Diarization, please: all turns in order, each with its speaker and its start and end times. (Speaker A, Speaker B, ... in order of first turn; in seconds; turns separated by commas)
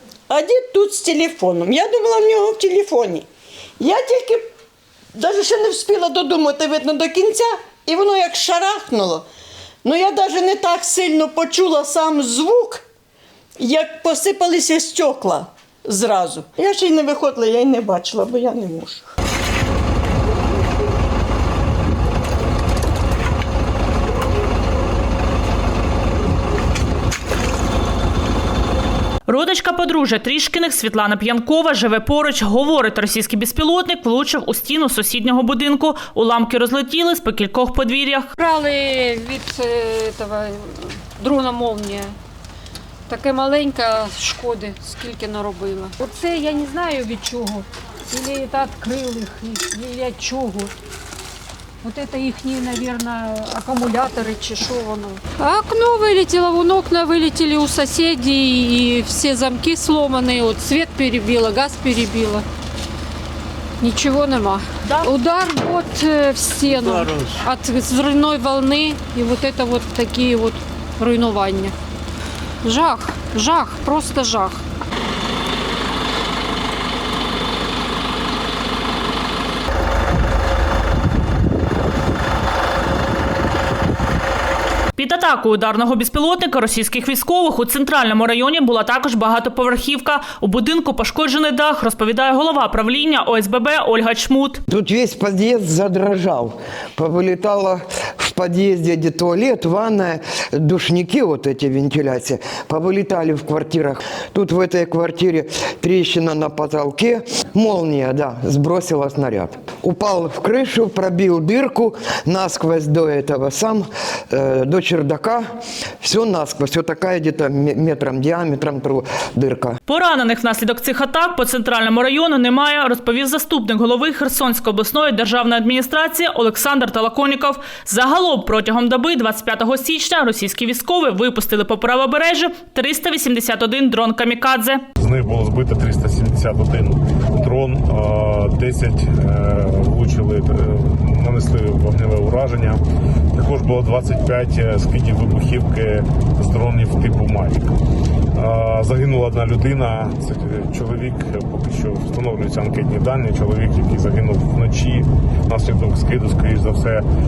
Speaker A: 0.3-3.3, Speaker A: 3.8-4.5, Speaker A: 5.1-9.3, Speaker A: 9.8-12.8, Speaker A: 13.6-19.1, Speaker B: 29.3-38.3, Speaker C: 38.4-42.1, Speaker C: 43.1-50.7, Speaker C: 51.8-62.4, Speaker C: 63.8-71.7, Speaker C: 72.6-74.6, Speaker B: 85.0-94.6, Speaker D: 94.7-115.4, Speaker D: 116.0-119.8, Speaker B: 119.9-134.8, Speaker E: 135.0-142.8, Speaker E: 143.3-147.7, Speaker E: 148.3-157.0